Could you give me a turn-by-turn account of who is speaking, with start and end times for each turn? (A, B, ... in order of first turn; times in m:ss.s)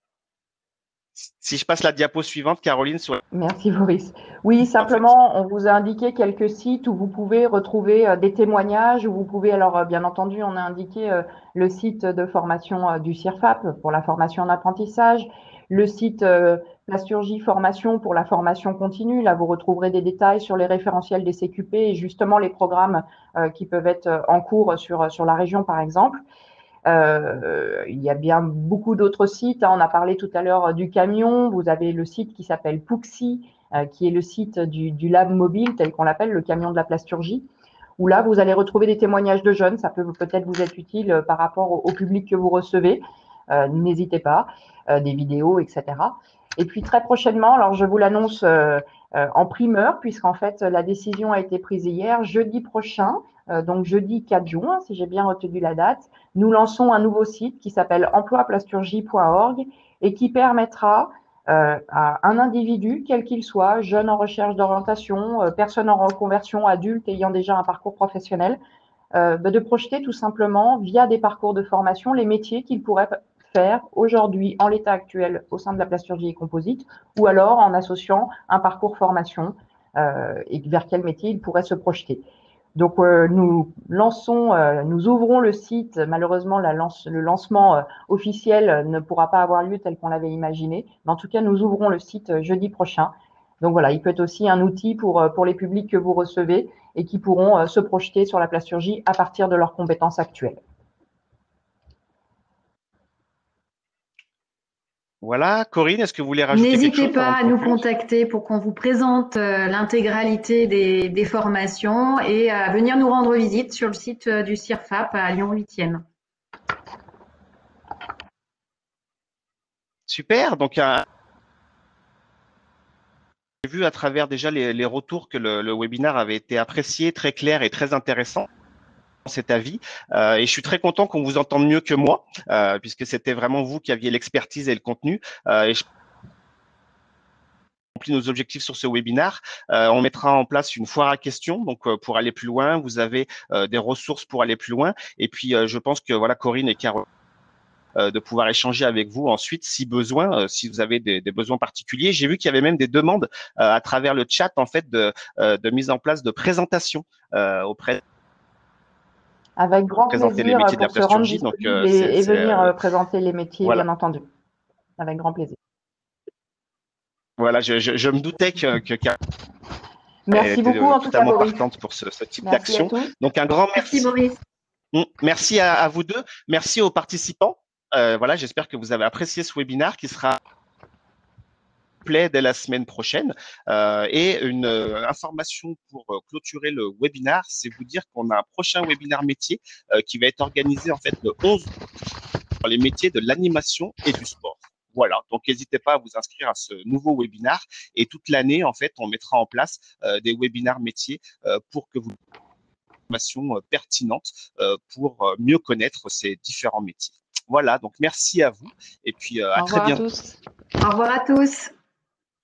0:01.2-0:03.2 A
0:03.3-0:26.2 B
0:26.9-0:37.5 B
0:38.0-1:08.6 B
1:09.1-1:22.2 B
1:22.8-1:40.6 B
1:45.2-1:47.8 A
1:46.5-1:56.0 C
2:00.1-2:01.0 A
2:03.6-2:08.5 A
2:09.2-2:15.8 A
2:18.0-2:27.1 A
2:28.0-2:38.0 A
2:39.6-2:44.3 B
2:40.1-2:42.8 A
2:45.0-2:45.6 B
2:47.4-2:49.2 A
2:50.3-2:51.6 B
2:50.3-2:54.1 A
2:52.4-2:53.1 B
2:53.8-2:54.4 C
2:54.9-3:00.4 A
3:02.0-3:11.7 A
3:12.6-3:22.2 A
3:23.1-3:30.0 A
3:29.6-3:30.4 B
3:30.8-3:31.7 C